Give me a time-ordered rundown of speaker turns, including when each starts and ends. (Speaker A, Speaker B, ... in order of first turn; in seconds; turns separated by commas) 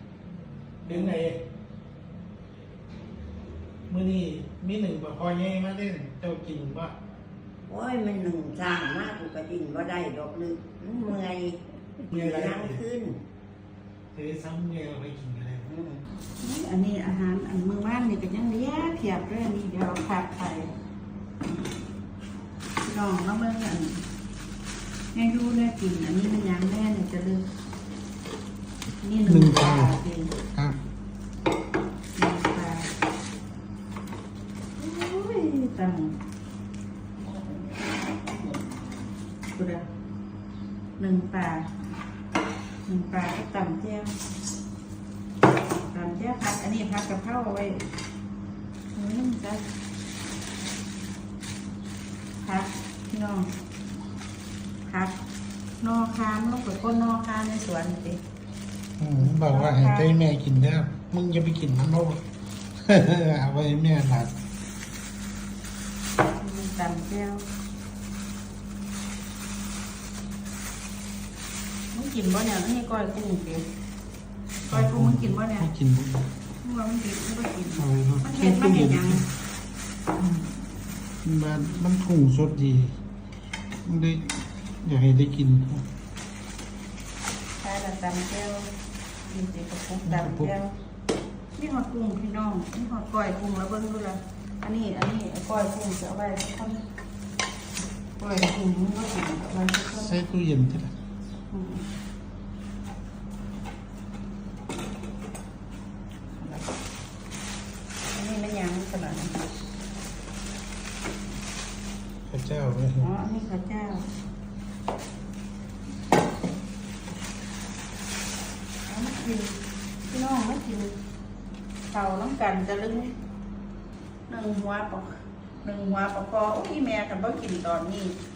Speaker A: 0.8-1.4, Speaker A: 3.9-6.9, Speaker B: 7.7-13.2, Speaker A: 12.1-12.8, Speaker A: 14.1-15.7, Speaker B: 15.7-16.0, Speaker C: 16.4-20.7, Speaker C: 22.8-24.0, Speaker C: 25.1-27.4, Speaker C: 29.0-30.3, Speaker A: 29.3-29.9, Speaker A: 30.5-30.8, Speaker C: 32.1-32.9, Speaker C: 34.8-36.1, Speaker C: 37.2-37.8, Speaker B: 38.4-38.8, Speaker C: 39.5-39.9, Speaker C: 41.0-41.7, Speaker C: 42.9-44.1, Speaker C: 45.7-47.8, Speaker C: 48.9-49.6, Speaker C: 52.4-53.5, Speaker C: 54.8-55.1, Speaker C: 55.8-58.2, Speaker A: 59.0-62.2, Speaker C: 59.2-60.2, Speaker A: 62.8-64.3, Speaker C: 66.3-67.5, Speaker C: 71.9-73.7, Speaker A: 74.7-76.3, Speaker C: 74.7-75.7, Speaker C: 76.6-79.2, Speaker A: 77.8-79.2, Speaker A: 81.2-82.9, Speaker A: 83.8-85.8, Speaker C: 87.6-88.7, Speaker C: 89.3-90.7, Speaker A: 90.1-90.5, Speaker C: 91.5-96.8, Speaker C: 98.2-100.2, Speaker A: 100.0-100.9, Speaker C: 101.5-101.8, Speaker C: 106.4-106.7, Speaker C: 108.1-109.4, Speaker A: 112.3-113.1, Speaker C: 113.0-114.1, Speaker C: 118.8-121.0, Speaker C: 121.9-123.1, Speaker C: 124.3-128.2